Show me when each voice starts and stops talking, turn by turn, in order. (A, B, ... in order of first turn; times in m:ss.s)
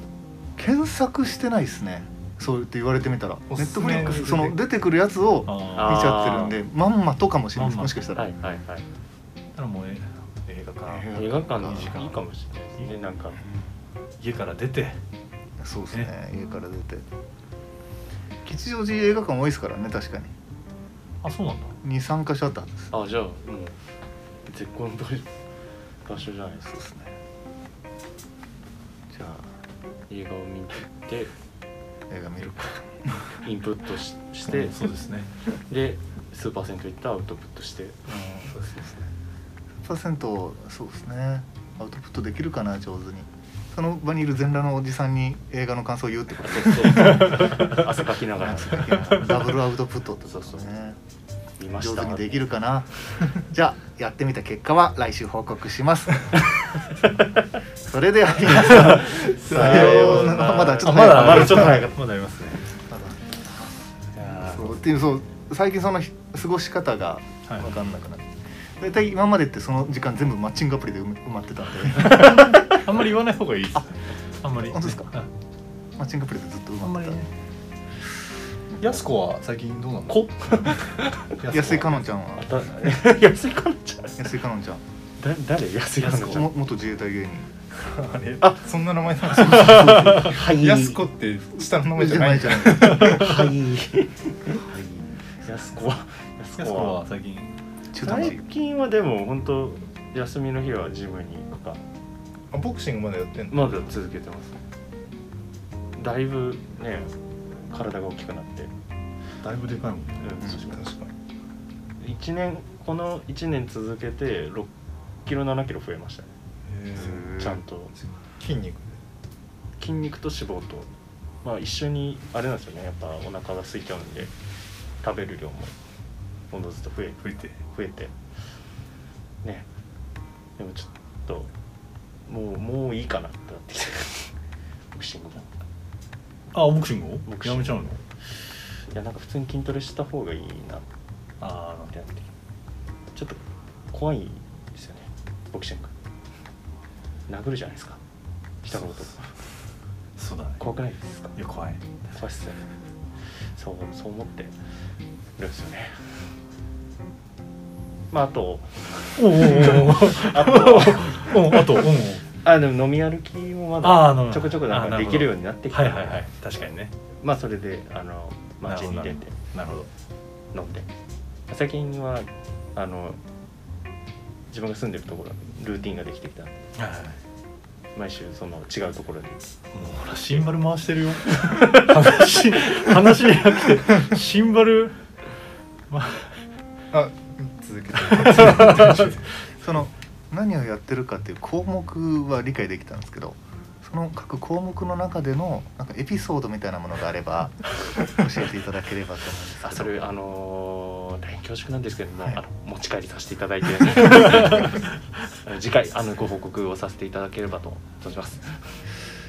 0:00.6-0:08.3 A
0:03.5-0:04.6 B
0:05.4-0:06.2 C
0:05.7-0:06.6 D
0:07.5-0:08.0 C
0:08.2-0:08.8 D
0:09.5-0:12.2 C
0:10.8-0:12.0 A
0:11.1-0:13.4 D
0:13.4-0:13.7 A
0:14.2-0:15.0 C
0:15.6-0:17.0 A
0:18.4-0:20.3 A
0:21.2-0:21.8 C
0:21.8-0:22.9 A
0:22.9-0:23.8 D
0:24.4-0:25.3 D
0:26.0-0:26.7 D
0:26.6-0:27.1 A
0:29.1-0:29.5 A
0:30.1-0:31.3 D
0:32.1-0:32.8 A
0:33.4-0:34.8 D
0:34.5-0:35.3 C
0:35.7-0:38.0 D
0:38.1-0:39.0 A
0:39.8-0:47.5 A
0:46.4-0:49.2 D
0:47.0-0:47.7 C
0:48.4-0:51.0 A
0:50.2-0:50.7 D
0:51.6-0:52.4 D
0:51.8-0:56.4 A
0:57.0-0:57.4 D
0:57.8-1:01.9 A
0:58.6-1:02.7 C
0:58.6-1:02.0 D
0:59.5-1:00.2 B
1:02.9-1:03.7 A
1:04.2-1:04.8 D
1:04.2-1:04.7 C
1:04.3-1:12.6 A
1:12.0-1:15.3 C
1:14.6-1:15.1 A
1:16.0-1:17.2 A
1:16.8-1:17.3 C
1:18.7-1:19.0 A
1:18.8-1:22.1 C
1:20.1-1:21.4 D
1:21.5-1:22.5 A
1:22.4-1:24.3 D
1:24.2-1:24.8 A
1:25.2-1:26.5 D
1:26.0-1:27.5 A
1:27.7-1:33.2 B
1:29.4-1:31.0 D
1:29.5-1:30.1 C
1:31.8-1:33.4 A
1:32.8-1:34.6 D
1:33.0-1:33.5 C
1:34.7-1:35.1 A
1:35.4-1:37.0 D
1:36.6-1:37.6 C
1:37.9-1:38.4 A
1:38.0-1:41.8 D
1:42.5-1:43.7 B
1:43.5-1:44.6 D
1:46.0-1:47.1 D
1:47.6-1:48.7 D
1:49.4-1:50.4 C
1:50.2-1:50.8 D
1:50.4-1:51.1 B
1:52.0-1:54.7 D
1:55.2-1:56.3 D
1:56.8-1:59.0 B
1:57.0-1:57.9 D
1:59.8-2:00.9 D
2:01.4-2:04.3 D
2:05.0-2:05.7 D
2:06.5-2:08.1 D
2:07.2-2:07.6 C
2:10.6-2:11.5 D
2:12.2-2:14.3 D
2:14.9-2:15.5 D
2:16.5-2:18.0 C
2:17.2-2:18.0 D
2:18.9-2:20.9 D
2:21.4-2:21.9 C
2:21.9-2:22.3 D
2:23.1-2:25.9 D
2:27.3-2:28.0 D
2:28.6-2:29.3 D
2:28.7-2:29.1 C
2:30.2-2:30.6 C
2:30.6-2:31.4 D
2:31.4-2:31.8 C
2:32.1-2:32.7 D
2:33.5-2:34.5 D
2:35.4-2:36.1 D
2:38.1-2:41.6 D
2:39.2-2:42.2 C
2:42.4-2:46.3 D
2:43.8-2:46.9 C
2:47.2-2:49.4 D
2:48.7-2:49.9 C
2:50.5-2:50.9 D
2:51.5-2:53.2 D
2:54.5-2:56.6 D
2:56.8-2:57.2 C
2:57.9-2:59.4 D
2:59.7-3:05.0 C
3:01.4-3:01.8 D
3:05.9-3:06.4 C
3:06.9-3:09.2 B
3:08.1-3:09.0 C
3:09.6-3:20.1 A
3:19.6-3:24.8 D
3:24.2-3:24.6 C
3:25.4-3:28.7 D